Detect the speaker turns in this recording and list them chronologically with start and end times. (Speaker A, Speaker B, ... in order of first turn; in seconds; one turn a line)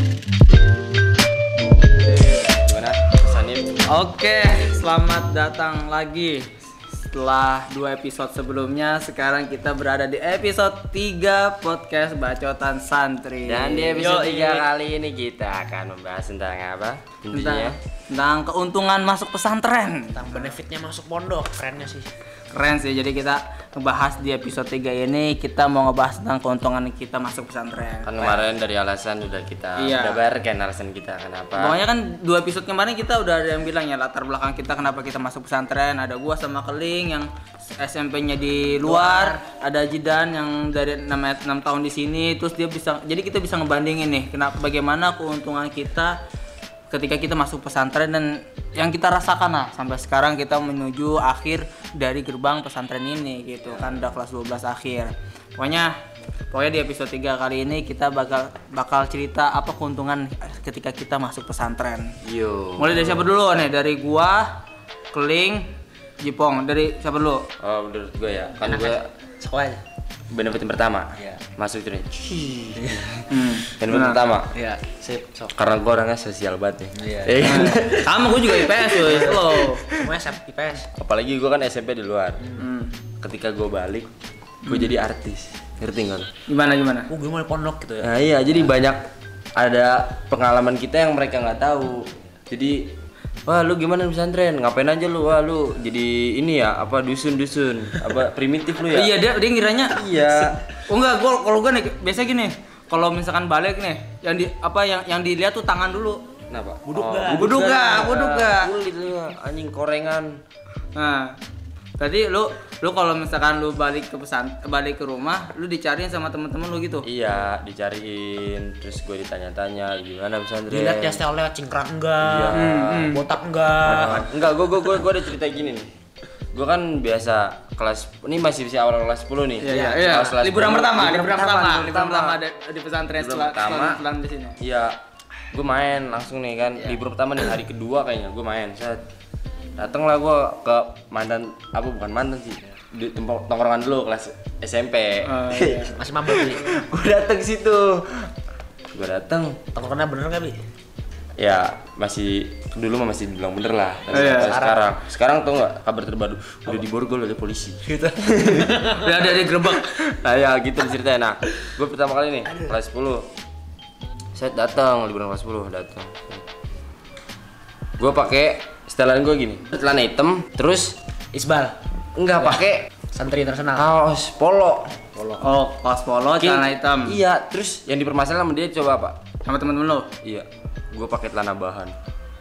Speaker A: 2.0-2.5
Speaker B: 2.6-3.8
Speaker A: 3.9-14.7
Speaker B: 13.4-17.8
Speaker A: 17.3-20.5
Speaker C: 20.1-22.1
Speaker A: 22.5-28.4
Speaker B: 28.0-31.8
Speaker A: 29.8-30.2
Speaker A: 31.5-46.1
Speaker C: 38.8-39.4
Speaker A: 46.9-55.9
Speaker B: 53.6-54.1
Speaker A: 56.5-62.1
Speaker B: 62.2-63.2
Speaker A: 62.8-64.6
Speaker A: 65.1-65.6
Speaker A: 66.2-67.5
Speaker B: 67.6-69.0
Speaker C: 68.6-69.8
Speaker B: 70.3-73.2
Speaker C: 71.2-71.4
Speaker C: 72.7-73.0
Speaker A: 73.3-74.2
Speaker B: 73.8-74.5
Speaker C: 74.5-75.5
Speaker B: 75.5-78.5
Speaker C: 77.0-77.8
Speaker A: 77.4-79.9
Speaker C: 78.8-80.9
Speaker B: 80.9-82.5
Speaker A: 82.6-83.0
Speaker B: 83.2-84.1
Speaker A: 84.7-84.9
Speaker B: 84.7-86.3
Speaker A: 86.5-87.1
Speaker C: 87.1-88.2
Speaker B: 88.0-89.0
Speaker B: 89.6-92.9
Speaker B: 93.5-99.1
Speaker A: 98.9-100.0
Speaker B: 99.9-100.6
Speaker A: 100.9-106.2
Speaker B: 106.5-110.4
Speaker C: 106.8-108.5
Speaker A: 107.3-108.7
Speaker A: 110.9-111.3
Speaker A: 112.0-117.0
Speaker B: 117.0-121.2
Speaker C: 120.7-124.3
Speaker B: 122.2-123.0
Speaker A: 122.5-123.3
Speaker B: 123.8-125.9
Speaker B: 126.5-131.1
Speaker A: 129.6-134.6
Speaker C: 129.7-130.1
Speaker C: 130.9-132.4
Speaker B: 133.2-134.0
Speaker B: 134.6-135.0
Speaker B: 135.5-139.0
Speaker B: 139.8-148.3
Speaker A: 145.2-145.9
Speaker C: 145.9-146.7
Speaker B: 148.9-149.6
Speaker C: 149.7-150.6
Speaker B: 151.4-157.8
Speaker A: 154.1-154.6
Speaker C: 154.1-154.9
Speaker C: 157.8-159.5
Speaker A: 158.9-160.0
Speaker B: 159.8-163.3
Speaker C: 162.5-162.8
Speaker B: 164.3-166.4
Speaker B: 168.0-171.0
Speaker C: 171.3-171.8
Speaker B: 172.2-172.9
Speaker C: 173.1-173.9
Speaker B: 173.7-174.9
Speaker C: 175.1-175.4
Speaker A: 175.4-177.2
Speaker B: 176.4-179.2
Speaker A: 179.4-180.1
Speaker B: 180.2-181.9